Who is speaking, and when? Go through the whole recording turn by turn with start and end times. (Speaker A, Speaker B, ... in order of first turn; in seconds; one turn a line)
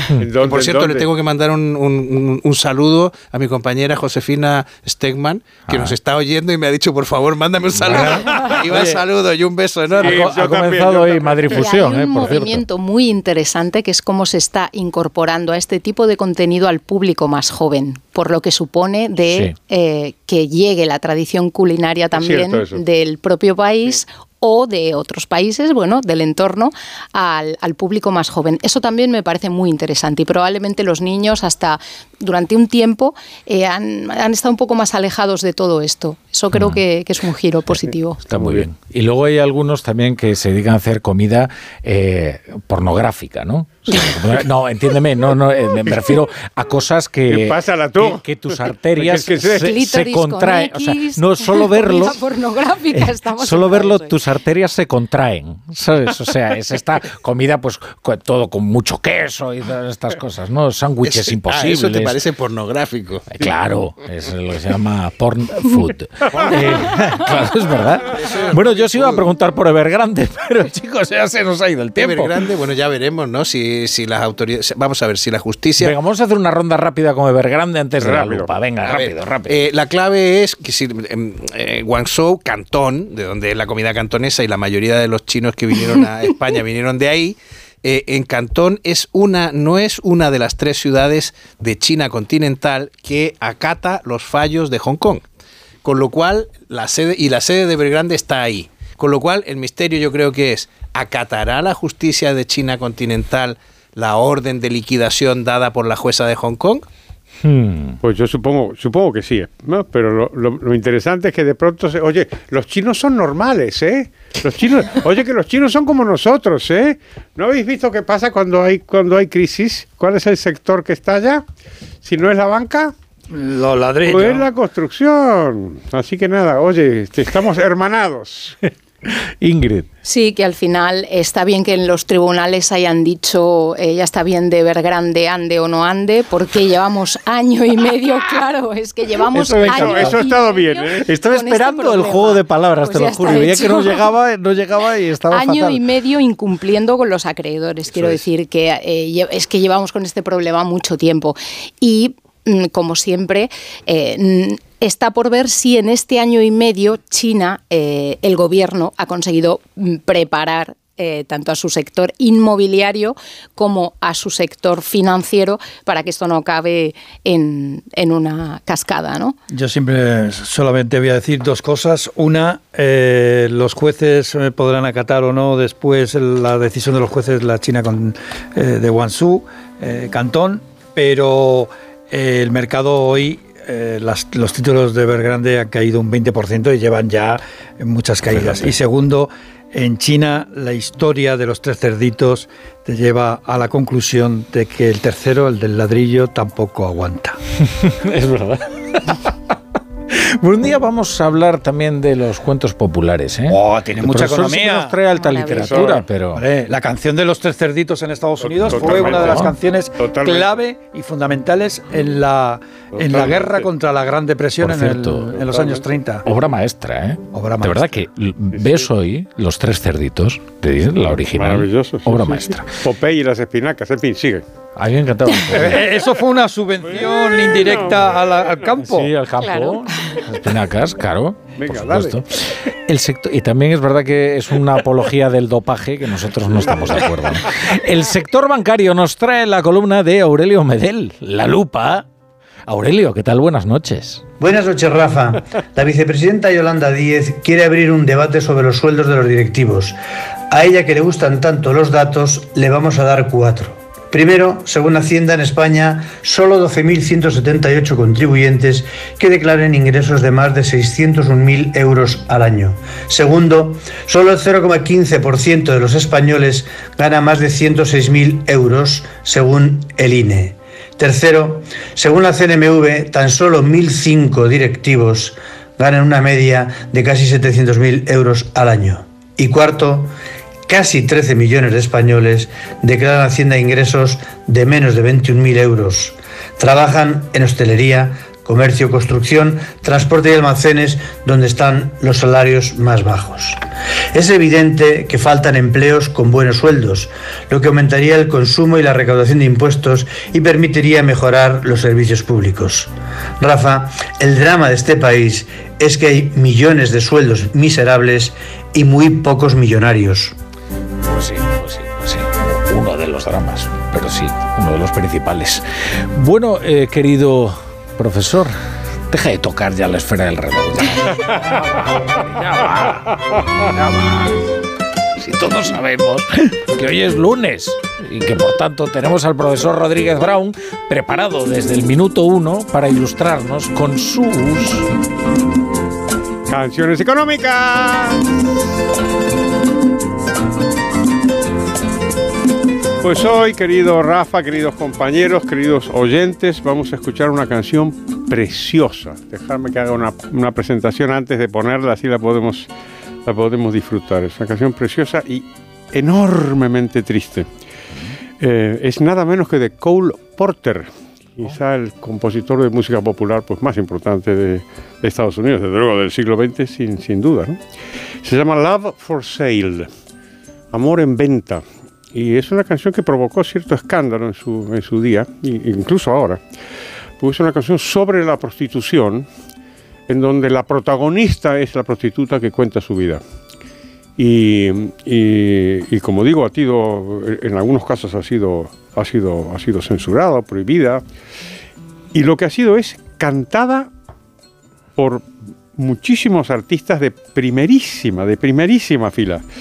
Speaker A: 0.2-1.1
Speaker B: 0.4-10.3
Speaker C: 5.7-6.0
Speaker C: 7.7-8.8
Speaker A: 10.0-11.7
Speaker C: 10.0-12.7
Speaker D: 11.5-38.2
Speaker C: 19.3-19.6
Speaker A: 22.1-22.8
Speaker C: 36.5-36.8
Speaker C: 38.3-52.2
Speaker A: 38.3-38.6
Speaker A: 47.3-49.8
Speaker D: 49.6-54.2
Speaker C: 52.9-62.2
Speaker B: 61.0-63.4
Speaker C: 63.3-72.4
Speaker B: 68.2-69.2
Speaker B: 72.0-76.0
Speaker C: 75.8-79.6
Speaker A: 78.0-78.5
Speaker B: 78.8-95.2
Speaker B: 95.8-106.9
Speaker C: 107.4-108.0
Speaker A: 108.0-121.4
Speaker A: 122.0-122.9
Speaker E: 123.3-124.5
Speaker A: 124.0-128.6
Speaker C: 129.1-129.9
Speaker D: 130.1-144.1
Speaker C: 139.3-140.2
Speaker A: 139.7-141.1
Speaker C: 141.1-145.8
Speaker D: 145.3-169.4
Speaker E: 169.5-197.4
Speaker C: 188.3-188.7
Speaker C: 197.6-199.3
Speaker C: 200.1-206.4
Speaker E: 203.5-205.0
Speaker D: 205.1-205.9
Speaker A: 205.6-205.9
Speaker E: 206.3-216.2
Speaker A: 208.4-210.6
Speaker C: 208.7-209.6
Speaker A: 212.9-213.7
Speaker C: 214.6-215.4
Speaker A: 215.4-215.9
Speaker C: 216.2-222.7
Speaker E: 217.3-218.0
Speaker A: 218.6-218.9
Speaker A: 221.0-224.4
Speaker C: 224.8-225.9
Speaker E: 225.5-229.1
Speaker A: 226.9-228.6
Speaker C: 228.8-242.1
Speaker A: 231.6-232.2
Speaker C: 242.7-244.2
Speaker F: 244.4-250.0
Speaker F: 250.5-280.1
Speaker F: 280.7-293.6
Speaker F: 294.1-310.4
Speaker C: 311.1-318.5
Speaker C: 319.1-324.4
Speaker C: 325.2-334.9
Speaker A: 336.5-338.2
Speaker A: 343.0-352.7
Speaker A: 353.3-357.5
Speaker A: 358.4-367.6
Speaker A: 368.2-369.9
Speaker A: 370.7-376.4
Speaker A: 377.2-379.3
Speaker A: 380.1-383.2
Speaker A: 384.2-391.0
Speaker A: 392.1-393.9
Speaker A: 395.0-395.3
Speaker A: 395.8-399.4